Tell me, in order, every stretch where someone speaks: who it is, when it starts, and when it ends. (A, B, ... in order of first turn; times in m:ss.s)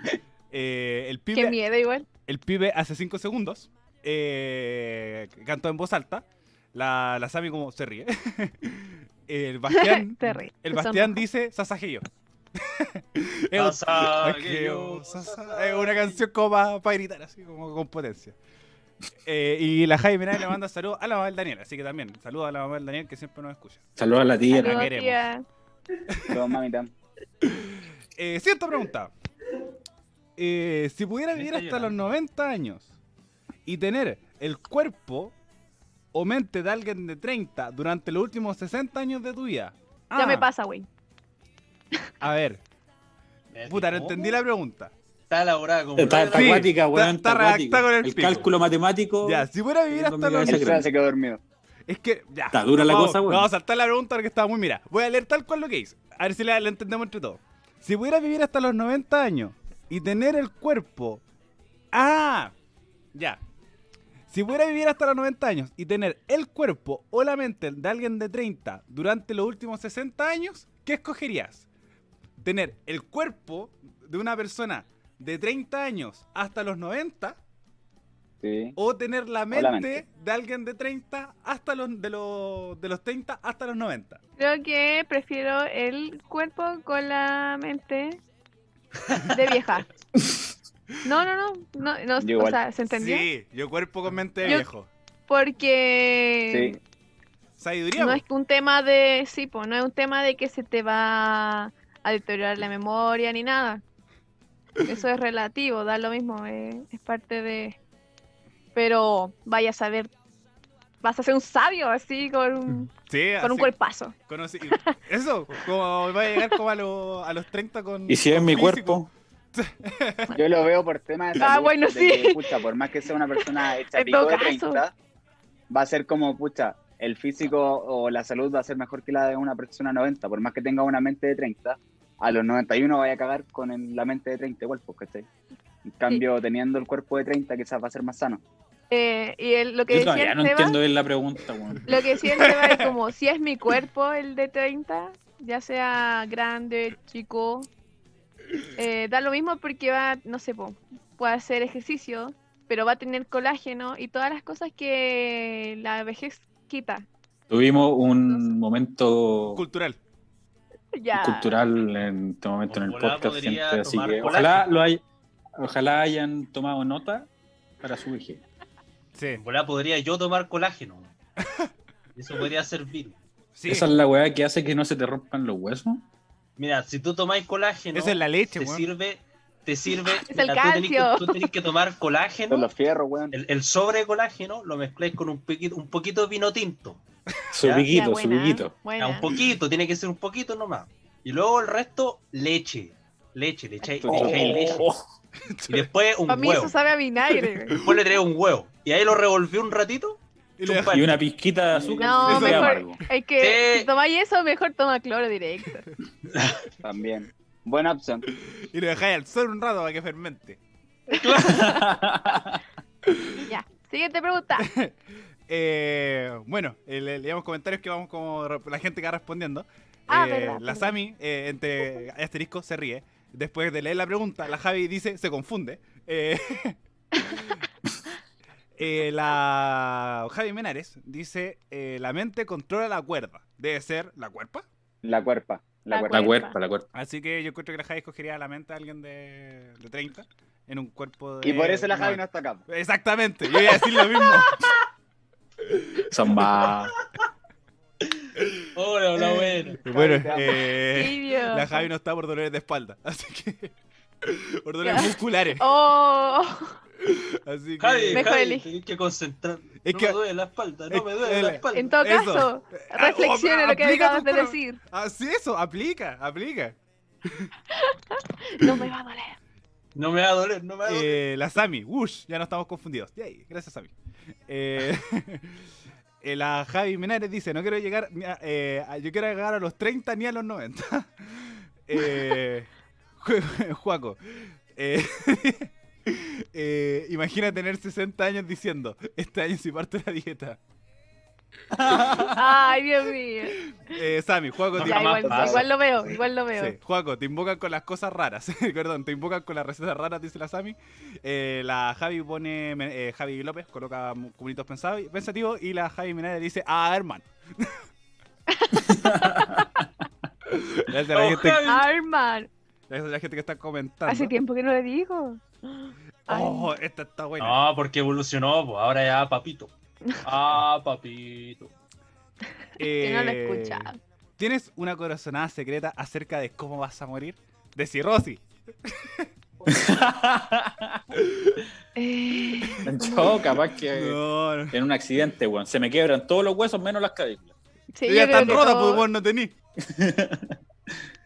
0:00.5-0:01.6 A
0:01.3-0:02.0 B
0:02.2-0:12.0 A
0:09.7-0:11.2 B
0:12.6-0:18.4 A
0:13.5-0:16.2 C
0:19.2-0:23.8 A
0:24.0-0:24.9 D
0:24.5-0:25.4 B
0:24.5-0:25.2 A
0:26.1-0:26.4 A
0:26.3-0:26.9 E
0:27.4-0:29.1 A
0:30.4-0:32.9 A
0:31.3-0:32.1 C
0:33.6-0:35.3 A
0:36.1-0:40.5 A
0:40.1-0:40.9 B
0:42.2-0:42.6 A
0:43.5-0:44.3 C
0:43.6-0:44.9 A
0:45.3-0:46.8 C
0:46.0-0:50.9 D
0:46.3-0:48.5 A
0:49.2-0:50.8 A
0:50.4-0:51.4 E
0:51.9-1:01.2 A
0:52.5-0:53.5 D
1:01.9-1:02.5 A
1:03.1-1:03.4 A
1:04.3-1:11.6 A
1:12.4-1:17.4 A
1:18.4-1:18.8 E
1:18.8-1:24.2 A
1:19.5-1:20.0 E
1:24.4-1:28.2 B
1:29.2-1:29.9 B
1:31.0-1:33.3 B
1:32.2-1:32.6 E
1:32.9-1:34.9 A
1:35.3-1:36.8 B
1:36.5-1:36.8 E
1:37.6-1:38.2 A
1:38.0-1:43.8 B
1:44.8-1:47.8 B
1:48.7-1:50.1 B
1:51.0-1:54.1 B
1:53.0-1:53.7 A
1:54.2-2:00.3 A
1:54.7-1:54.9 B
1:58.1-1:59.1 D
2:00.3-2:04.9 E
2:01.4-2:02.6 B
2:03.4-2:04.8 B
2:05.7-2:15.3 E
2:15.8-2:18.4 E
2:18.9-2:20.8 B
2:19.9-2:22.0 D
2:21.8-2:27.7 B
2:22.2-2:22.9 A
2:28.8-2:37.1 B
2:37.5-2:39.6 D
2:39.5-2:40.0 A
2:40.9-2:41.5 B
2:41.1-2:45.0 D
2:42.6-2:44.8 C
2:45.6-2:47.3 D
2:47.8-2:48.4 D
2:49.1-2:49.4 A
2:49.4-2:51.1 C
2:51.4-2:51.7 A
2:52.2-2:53.2 C
2:53.6-2:53.9 A
2:53.7-2:56.0 D
2:56.6-3:02.7 C
2:57.9-2:58.8 A
3:00.2-3:01.5 B
3:02.5-3:03.3 E
3:03.3-3:07.0 C
3:07.5-3:08.8 D
3:07.6-3:07.9 C
3:07.8-3:09.3 B
3:09.0-3:14.8 C
3:14.0-3:14.8 E
3:14.1-3:15.0 D
3:15.5-3:15.9 A
3:15.7-3:16.7 C
3:16.3-3:17.9 B
3:17.3-3:17.8 A
3:17.8-3:21.2 C
3:20.6-3:21.2 A
3:20.9-3:23.0 D
3:21.7-3:22.2 E
3:22.0-3:25.8 B
3:22.2-3:22.8 A
3:23.4-3:23.9 C
3:26.3-3:26.6 C
3:26.8-3:28.2 E
3:28.3-3:30.6 A
3:31.1-3:31.8 B
3:31.2-3:32.6 D
3:31.3-3:31.6 C
3:33.1-3:33.4 A
3:33.5-3:34.7 B
3:34.6-3:34.9 A
3:35.5-3:47.6 A
3:40.1-3:40.9 B
3:48.8-3:54.6 A
3:55.0-3:56.3 E
3:55.9-3:56.6 B
3:56.1-3:56.9 D
3:56.9-4:04.7 A
4:01.4-4:02.6 E
4:05.7-4:06.0 A
4:06.1-4:06.9 D
4:08.7-4:09.8 C
4:09.2-4:10.6 E
4:09.8-4:15.7 A
4:10.8-4:11.9 B
4:14.8-4:16.8 B
4:17.0-4:18.3 A
4:17.8-4:22.0 C
4:18.1-4:18.7 B
4:19.8-4:20.2 A
4:20.9-4:27.5 A
4:21.7-4:24.8 B
4:27.7-4:29.4 B
4:29.9-4:31.2 C
4:30.8-4:33.9 A
4:34.5-4:35.6 A
4:36.2-4:50.6 A
4:51.7-4:52.5 D
4:52.2-4:53.6 B
4:53.8-4:55.2 A
4:54.8-4:55.7 C
4:54.8-4:56.8 B
4:54.8-4:56.2 E
4:56.5-5:07.7 A
5:08.5-5:09.8 B
5:08.9-5:09.6 D
5:10.5-5:11.6 A
5:11.1-5:11.8 C
5:11.6-5:12.5 B
5:12.9-5:14.3 A
5:14.1-5:16.7 B
5:16.3-5:17.6 A
5:17.4-5:19.7 C
5:20.2-5:21.7 C
5:22.8-5:24.0 B
5:22.8-5:29.3 A
5:29.7-5:31.0 D
5:31.1-5:31.6 A
5:32.0-5:33.4 B
5:32.4-5:32.9 A
5:32.8-5:34.2 D
5:33.9-5:34.8 A
5:34.7-5:37.5 D
5:37.9-5:39.1 B
5:38.0-5:39.5 A
5:39.8-5:40.6 D